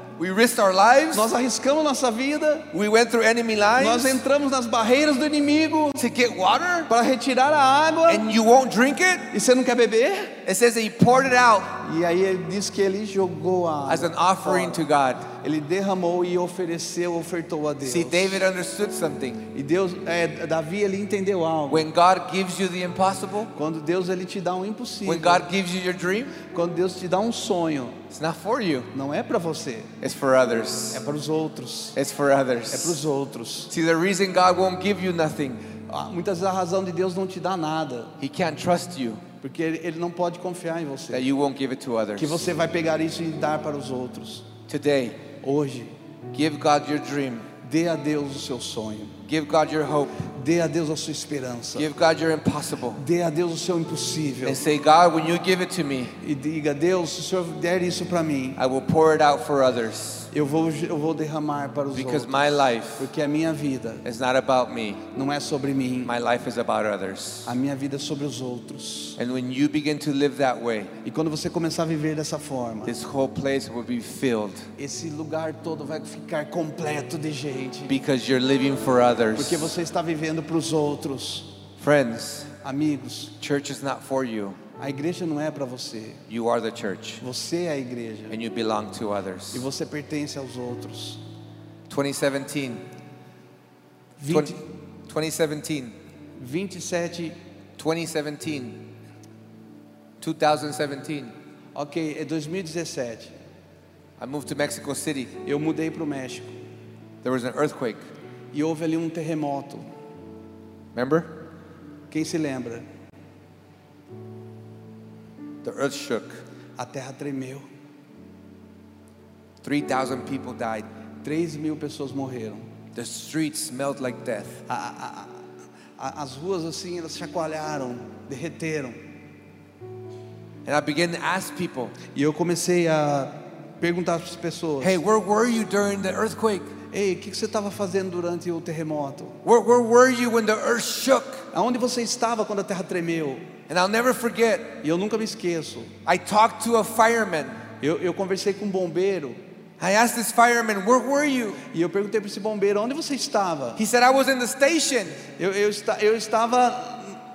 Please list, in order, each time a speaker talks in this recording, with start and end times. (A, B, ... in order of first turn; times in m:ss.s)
0:00.2-0:01.3 A
0:01.1-0:02.7 B
0:02.7-0:04.2 A
0:03.8-0:06.0 B
0:06.0-0:06.9 A
0:06.9-0:08.2 B
0:08.1-0:09.3 A
0:09.3-0:10.3 B
0:10.4-0:11.8 A
0:11.8-0:18.4 B
0:13.9-0:15.3 A
0:17.8-0:19.4 A
0:19.5-0:21.9 B
0:21.7-0:23.5 A
0:23.5-0:25.5 B
0:25.0-0:26.4 A
0:26.5-0:28.0 B
0:28.1-0:28.9 A
0:28.9-0:29.9 B
0:30.0-0:31.0 A
0:30.9-0:32.0 B
0:31.9-0:33.0 A
0:32.7-0:33.7 B
0:33.7-0:35.6 A
0:35.9-0:38.1 B
0:38.2-0:39.2 A
0:39.4-0:41.3 B
0:41.1-0:42.5 A
0:42.2-0:44.5 B
0:44.7-0:45.2 A
0:45.4-0:45.9 B
0:46.3-0:47.5 A
0:47.6-0:49.2 B
0:49.2-0:50.2 A
0:50.2-0:51.9 B
0:51.7-0:53.0 A
0:53.0-0:54.6 B
0:54.4-0:56.2 A
0:56.2-0:58.6 B
0:58.6-1:00.3 A
1:00.3-1:04.0 B
1:01.9-1:03.1 A
1:04.0-1:05.0 A
1:05.1-1:06.1 B
1:06.0-1:07.5 A
1:07.4-1:09.2 B
1:09.2-1:10.9 A
1:11.0-1:12.9 B
1:12.8-1:14.7 A
1:14.8-1:17.9 B
1:17.9-1:19.7 A
1:19.4-1:21.5 B
1:21.8-1:22.5 A
1:22.6-1:23.3 B
1:23.4-1:24.6 A
1:24.8-1:26.2 B
1:26.3-1:27.2 A
1:27.2-1:28.4 B
1:28.3-1:29.6 A
1:29.5-1:31.2 B
1:31.9-1:32.8 A
1:34.2-1:34.6 B
1:34.3-1:36.0 A
1:36.4-1:37.4 B
1:37.8-1:38.8 A
1:40.2-1:41.3 A
1:41.7-1:43.3 B
1:44.2-1:45.3 A
1:45.4-1:46.5 B
1:47.2-1:48.0 A
1:48.5-1:49.9 B
1:50.9-1:51.3 A
1:52.1-1:52.8 B
1:55.6-1:56.4 A
1:56.8-1:57.7 B
1:59.6-2:00.9 A
2:01.2-2:02.6 B
2:02.9-2:04.6 A
2:04.7-2:05.4 B
2:06.0-2:09.0 B
2:10.6-2:12.0 A
2:12.1-2:15.0 B
2:14.8-2:16.7 A
2:16.9-2:19.4 B
2:19.4-2:21.4 A
2:21.5-2:23.4 B
2:23.7-2:24.8 A
2:24.8-2:25.9 B
2:26.0-2:27.6 A
2:27.8-2:29.4 B
2:29.8-2:31.6 A
2:31.7-2:33.8 B
2:33.8-2:35.2 A
2:35.4-2:37.2 B